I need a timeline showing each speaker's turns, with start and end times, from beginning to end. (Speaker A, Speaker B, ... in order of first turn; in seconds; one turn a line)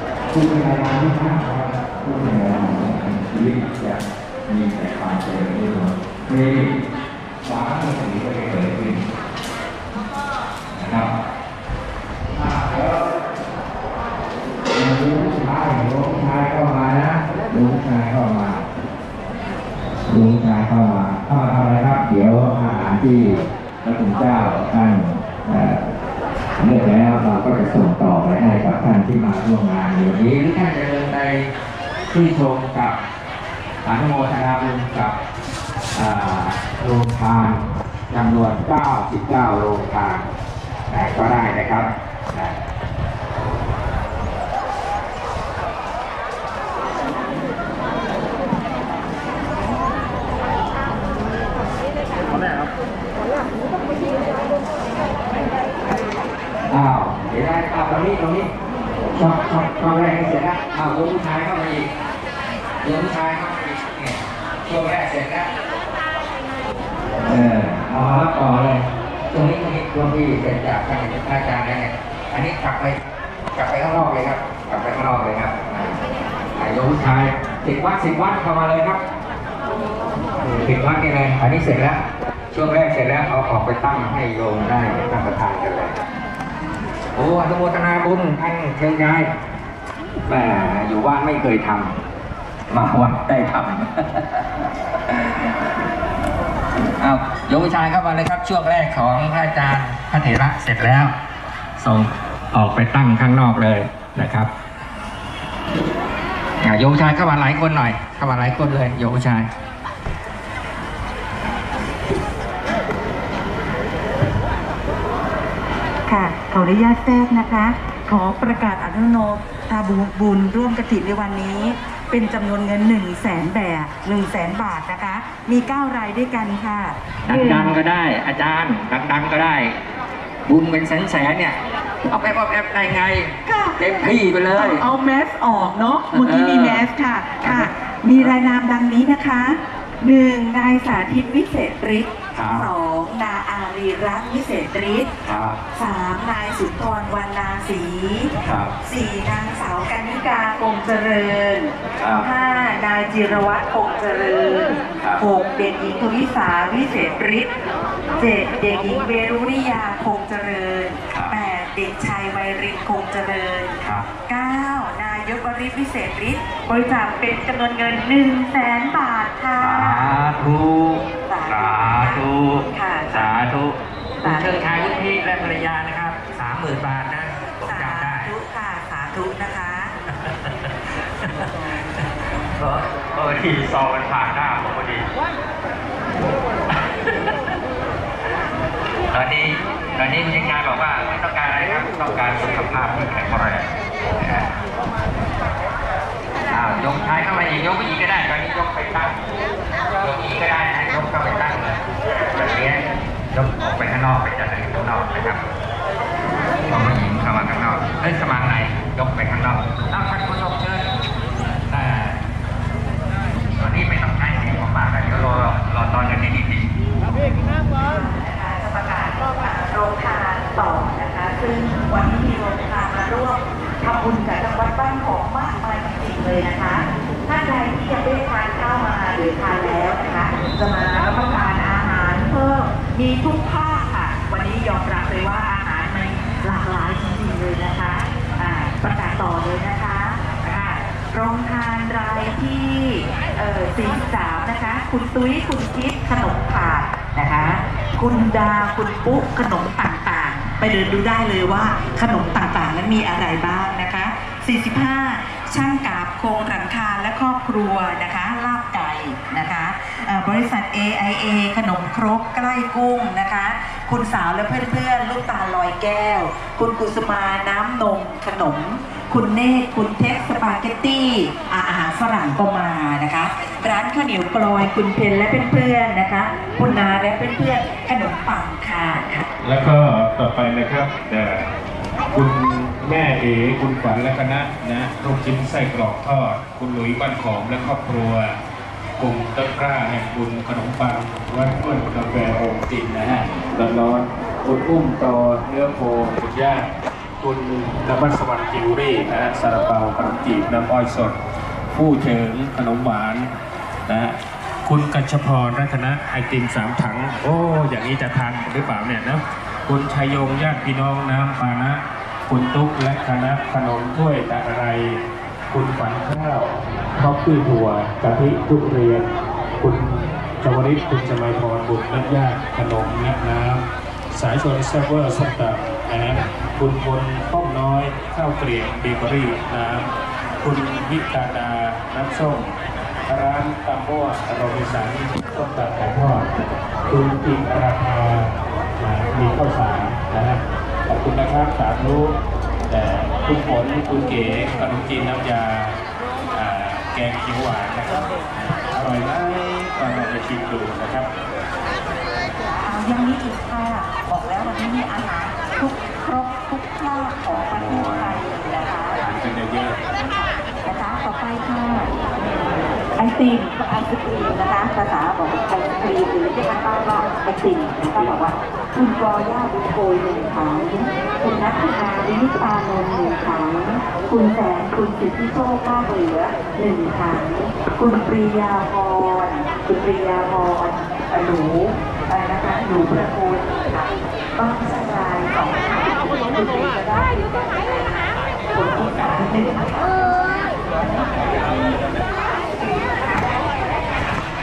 Speaker A: 0.3-6.8
Speaker A: 7.4-9.1
Speaker A: 10.7-11.1
Speaker A: 12.3-13.1
Speaker A: 14.7-18.6
Speaker A: 20.1-25.9
Speaker A: 26.6-31.5
Speaker A: 32.1-33.0
Speaker A: 33.8-35.1
Speaker A: 35.9-40.2
Speaker A: 40.9-42.6
Speaker A: 56.7-58.5
Speaker A: 59.1-61.9
Speaker A: 62.8-65.5
Speaker A: 67.2-73.0
Speaker A: 73.5-76.0
Speaker A: 76.5-79.0
Speaker A: 80.5-86.0
Speaker A: 87.1-89.3
Speaker A: 90.3-92.0
Speaker A: 92.7-94.5
Speaker A: 97.0-101.1
Speaker A: 101.8-104.5
Speaker A: 106.6-109.5
Speaker B: 116.1-127.8
Speaker A: 127.2-129.7
Speaker A: 130.5-134.8
Speaker B: 133.4-145.1
Speaker A: 136.1-136.8
Speaker A: 137.4-138.3
Speaker A: 142.3-142.7
Speaker A: 145.2-145.6
Speaker B: 145.7-157.5
Speaker A: 148.4-148.7
Speaker A: 152.0-152.3
Speaker B: 158.2-170.2
Speaker A: 161.1-161.3
Speaker A: 163.8-164.1
Speaker A: 169.6-178.3
Speaker B: 171.2-173.3
Speaker B: 174.2-174.6
Speaker B: 177.6-180.0
Speaker A: 180.2-182.0
Speaker A: 182.6-185.1
Speaker A: 186.7-187.3
Speaker A: 189.1-194.5
Speaker A: 196.5-199.2
Speaker A: 200.0-205.4
Speaker A: 206.7-210.9
Speaker A: 211.7-212.2
Speaker A: 213.6-216.7
Speaker B: 217.8-279.3
Speaker C: 279.4-281.5
Speaker C: 282.1-288.4
Speaker C: 289.0-301.2
Speaker C: 301.7-303.3
Speaker C: 303.9-329.9
Speaker C: 330.4-332.5
Speaker C: 333.1-336.3
Speaker C: 336.9-342.2
Speaker C: 342.7-345.8
Speaker C: 346.3-348.1
Speaker C: 348.7-351.1
Speaker B: 352.5-359.0
Speaker C: 357.5-358.2
Speaker C: 359.0-359.8
Speaker B: 359.9-361.9
Speaker B: 362.9-393.4